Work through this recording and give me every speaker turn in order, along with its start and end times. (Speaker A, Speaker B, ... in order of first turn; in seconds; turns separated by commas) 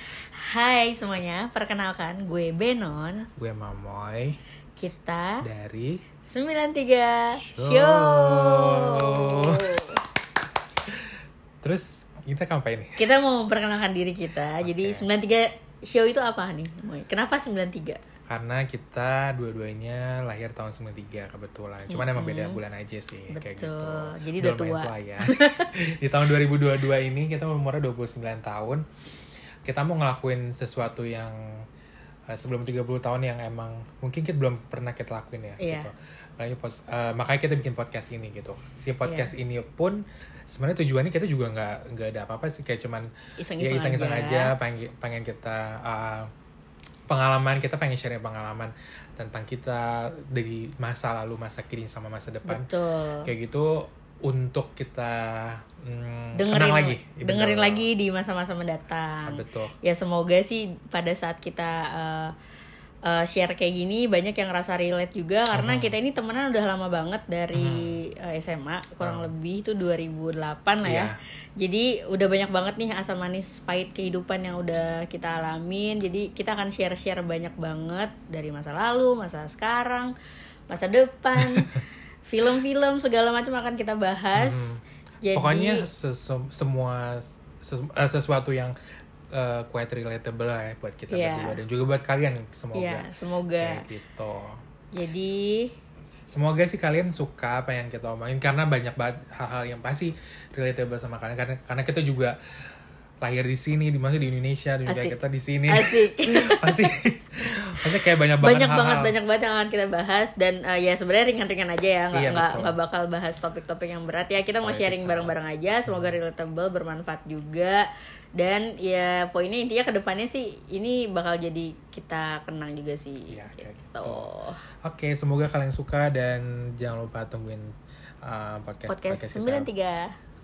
Speaker A: 0.4-3.3, Speaker B: 3.4-4.4, Speaker A: 4.8-5.4, Speaker B: 5.4-6.0, Speaker A: 6.2-10.0, Speaker B: 7.4-10.0, Speaker B: 10.9-13.0, Speaker A: 13.0-18.0, Speaker B: 14.6-15.1, Speaker B: 18.3-28.8, Speaker A: 21.9-22.6, Speaker A: 23.3-25.6, Speaker B: 29.6-31.6, Speaker B: 32.3-46.3, Speaker A: 35.6-35.9, Speaker A: 39.0-39.3, Speaker A: 43.4-44.5, Speaker B: 47.1-52.7, Speaker A: 52.5-53.3, Speaker B: 53.2-57.9, Speaker A: 56.4-62.3, Speaker B: 59.3-59.8, Speaker A: 63.0-80.1, Speaker B: 65.5-66.0, Speaker B: 67.5-68.0, Speaker B: 69.0-69.3, Speaker B: 70.8-71.2, Speaker A: 80.7-85.9, Speaker B: 84.3-84.8, Speaker B: 85.3-88.8, Speaker B: 89.3-94.6, Speaker A: 91.1-91.6, Speaker A: 92.7-93.8, Speaker A: 94.9-95.7, Speaker B: 96.3-102.3, Speaker B: 103.2-109.2, Speaker A: 104.9-105.2, Speaker A: 105.7-106.8, Speaker A: 108.4-124.6, Speaker B: 112.1-112.7, Speaker B: 114.6-116.1, Speaker B: 123.3-124.3, Speaker B: 124.8-129.7, Speaker A: 128.9-130.1